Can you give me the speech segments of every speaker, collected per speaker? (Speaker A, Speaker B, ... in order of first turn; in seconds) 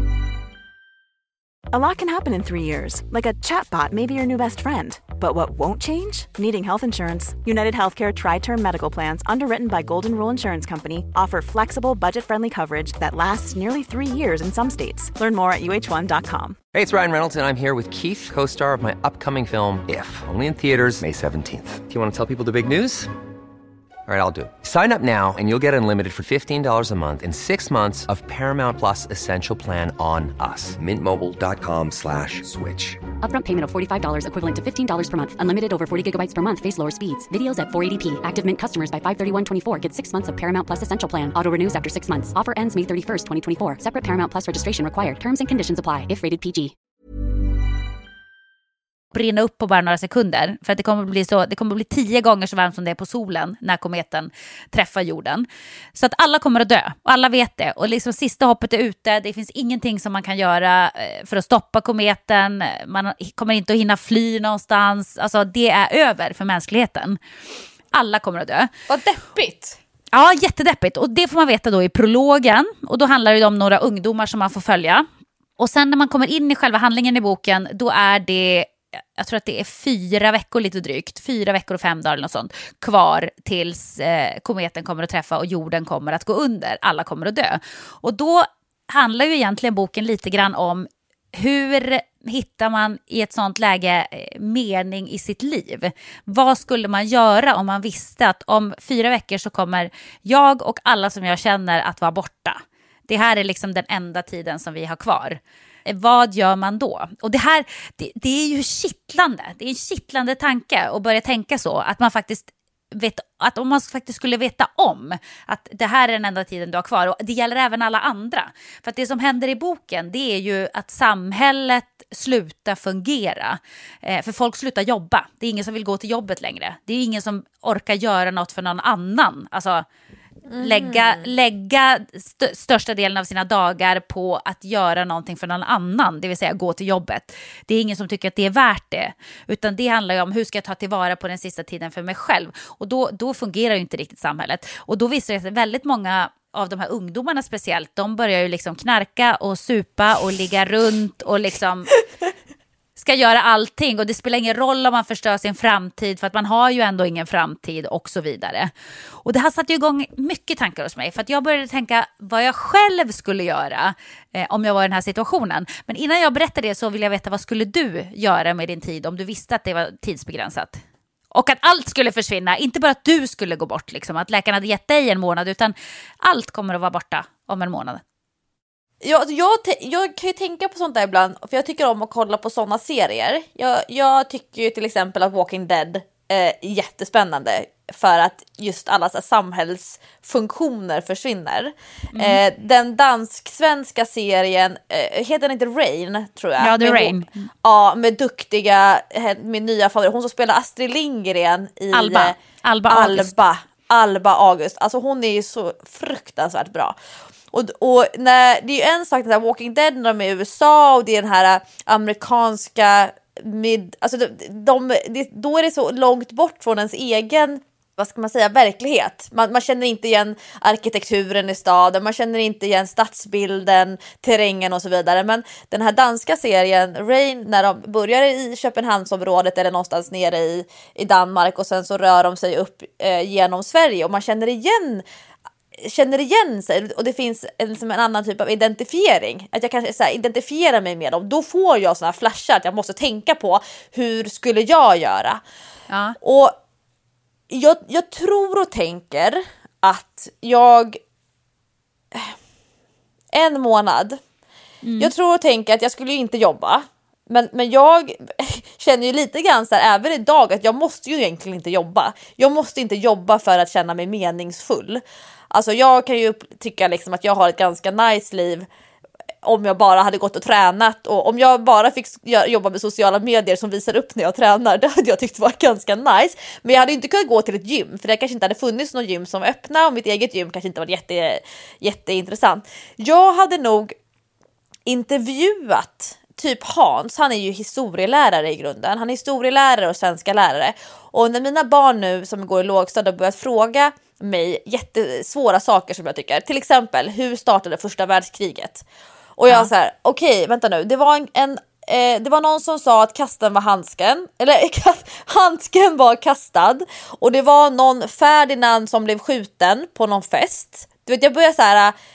Speaker A: 1.7-16.6
Speaker B: 16.7-23.1, 24.1-33.1
Speaker C: 33.2-46.7
Speaker D: 49.1-67.2, 67.9-68.7, 70.1-75.1, 75.6-129.8, 130.6-151.9, 153.0-158.7, 159.2-178.0, 192.1-192.4, 196.6-197.5, 201.9-203.4, 245.9-246.2, 254.8-255.1
Speaker E: 68.9-69.8, 130.5-131.3, 179.0-207.0, 207.5-235.1, 235.8-245.4, 246.2-246.6, 247.5-251.0, 253.3-254.2, 255.0-268.7, 269.4-283.9, 284.9-298.9, 299.4-311.9